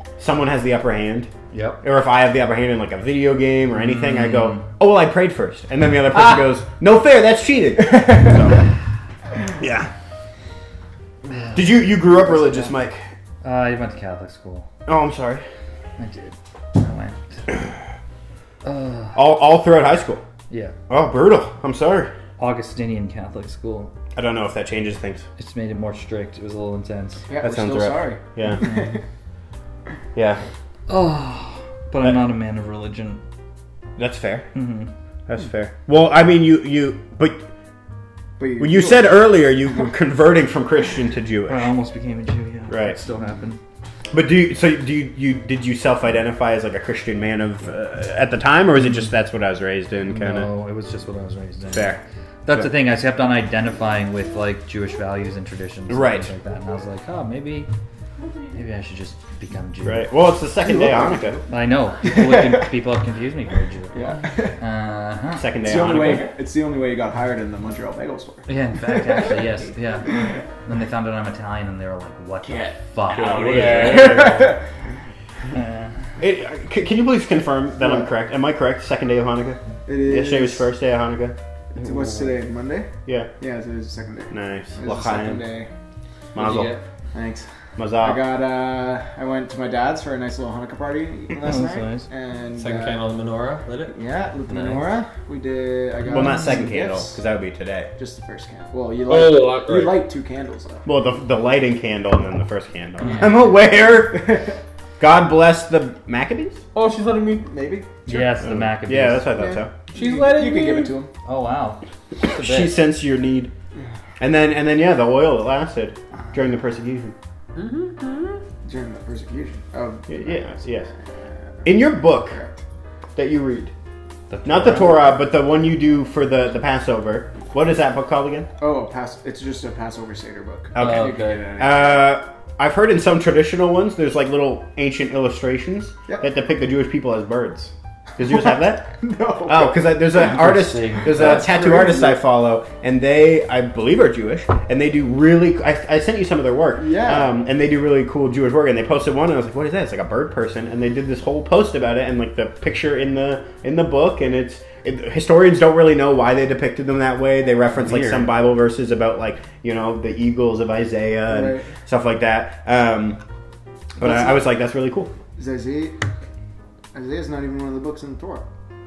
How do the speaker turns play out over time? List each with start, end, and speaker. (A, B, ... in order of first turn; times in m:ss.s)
0:00.2-0:01.3 A
0:01.5-0:01.8 B
0:01.8-0:08.7 A
0:03.8-0:04.6 B
0:07.8-0:08.4 C
0:09.6-0:09.9 A
0:11.2-0:11.7 B
0:11.5-0:13.1 A
0:12.1-0:12.7 C
0:13.4-0:14.7 B
0:14.9-0:15.4 A
0:16.0-0:17.4 B
0:18.6-0:19.2 B
0:19.1-0:20.2 A
0:20.5-0:20.7 B
0:20.9-0:22.1 A
0:22.4-0:23.9 B
0:24.1-0:25.2 A
0:25.4-0:27.2 B
0:27.3-0:29.0 C
0:27.4-0:28.7 A
0:28.6-0:28.9 B
0:30.1-0:30.4 A
0:30.9-0:33.2 B
0:34.0-0:34.5 A
0:34.5-0:34.9 B
0:35.3-0:37.4 A
0:38.4-0:39.2 C
0:38.6-0:41.7 A
0:41.5-0:43.6 B
0:42.7-0:43.0 A
0:44.1-0:50.5 A
0:50.0-0:57.7 B
0:51.7-0:52.7 A
0:55.9-0:56.3 A
0:58.5-1:00.1 B
0:59.8-1:01.4 A
1:00.6-1:01.5 C
1:01.5-1:05.6 B
1:02.0-1:02.7 C
1:03.9-1:04.6 C
1:05.4-1:06.3 A
1:05.6-1:08.5 C
1:08.5-1:14.5 B
1:13.1-1:14.4 A
1:13.4-1:14.6 C
1:13.4-1:14.0 D
1:15.5-1:15.9 B
1:16.2-1:21.4 A
1:17.8-1:18.1 C
1:19.9-1:20.7 C
1:21.7-1:25.7 C
1:21.8-1:22.3 B
1:23.0-1:23.3 A
1:24.3-1:25.4 A
1:26.3-1:26.8 A
1:26.4-1:26.8 B
1:27.1-1:27.4 C
1:27.8-1:28.3 A
1:28.0-1:33.1 C
1:31.4-1:32.1 B
1:32.6-1:33.9 D
1:33.9-1:37.2 C
1:34.5-1:34.9 D
1:36.1-1:37.9 A
1:38.0-1:40.9 C
1:39.1-1:40.0 D
1:40.8-1:44.4 A
1:43.0-1:43.3 B
1:45.0-1:46.6 A
1:46.7-1:47.5 D
1:47.4-1:47.9 C
1:48.0-1:49.3 B
1:48.1-1:49.7 A
1:49.4-1:51.1 C
1:49.9-1:51.0 D
1:51.2-1:52.8 B
1:52.2-1:53.5 A
1:54.2-1:57.1 A
1:57.6-1:58.4 D
1:58.6-2:00.9 C
2:00.1-2:00.9 A
2:01.6-2:02.4 A
2:03.2-2:03.7 A
2:04.3-2:05.0 B
2:04.4-2:08.5 A
2:08.6-2:12.1 C
2:10.7-2:18.9 A
2:10.8-2:11.4 B
2:10.8-2:11.2 D
2:18.9-2:19.8 C
2:19.4-2:43.2 A
2:20.1-2:21.4 B
2:21.0-2:22.2 C
2:26.8-2:27.3 C
2:37.9-2:38.2 D
2:41.3-2:41.7 C
2:44.0-2:45.1 A
2:44.0-2:44.4 C
2:45.4-2:46.0 C
2:46.9-2:48.4 C